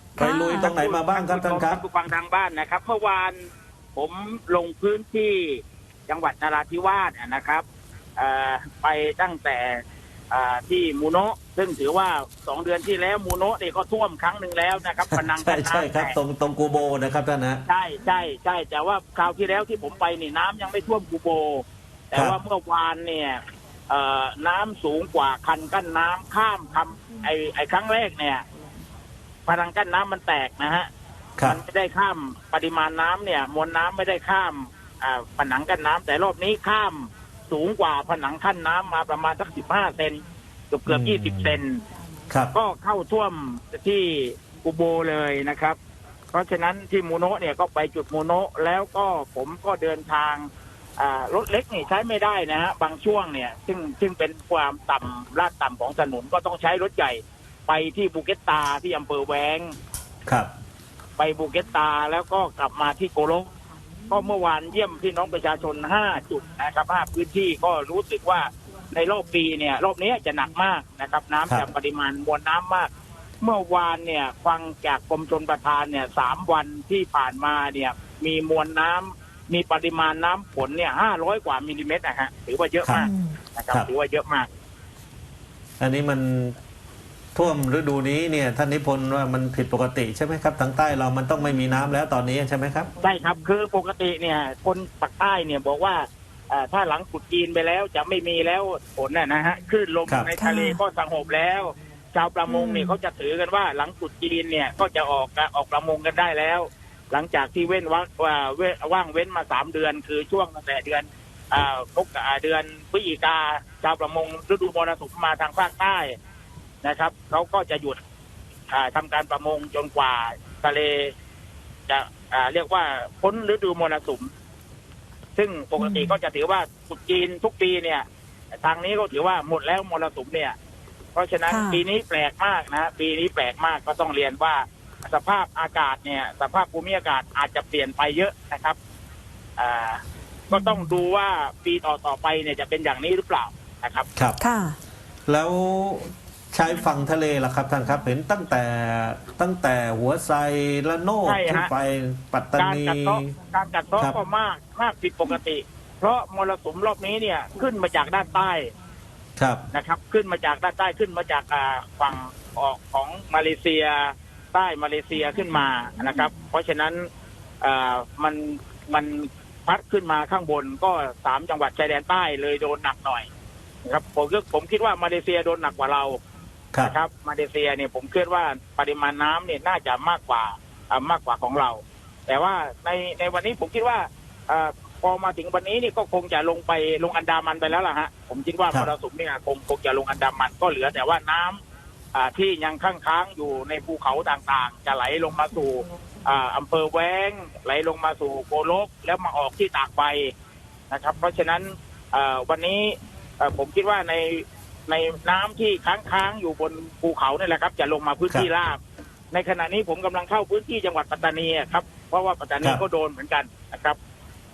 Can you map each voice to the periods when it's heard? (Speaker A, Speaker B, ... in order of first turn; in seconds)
Speaker A: 0.2-0.8, 83.0-83.4, 100.4-100.8, 102.5-102.9, 125.8-126.2, 131.5-131.8, 144.4-144.8
Speaker B: 0.2-1.8, 15.1-17.6, 40.9-41.6, 85.8-86.6, 87.3-92.9, 145.3-153.3
Speaker C: 0.6-3.4, 4.0-7.6, 8.2-16.2, 17.7-28.4, 29.5-30.9, 31.4-41.8, 42.5-45.8, 46.3-59.7, 61.2-63.5, 64.1-84.5, 93.0-116.2, 116.8-118.0, 118.7-121.1, 121.9-124.3, 125.4-128.1, 128.6-130.6, 131.2-138.8, 139.6-144.1, 151.2-151.7, 152.6-158.7, 159.7-167.1, 167.6-173.3, 173.8-176.2, 176.8-191.6, 192.1-200.3, 200.9-208.8, 209.3-214.0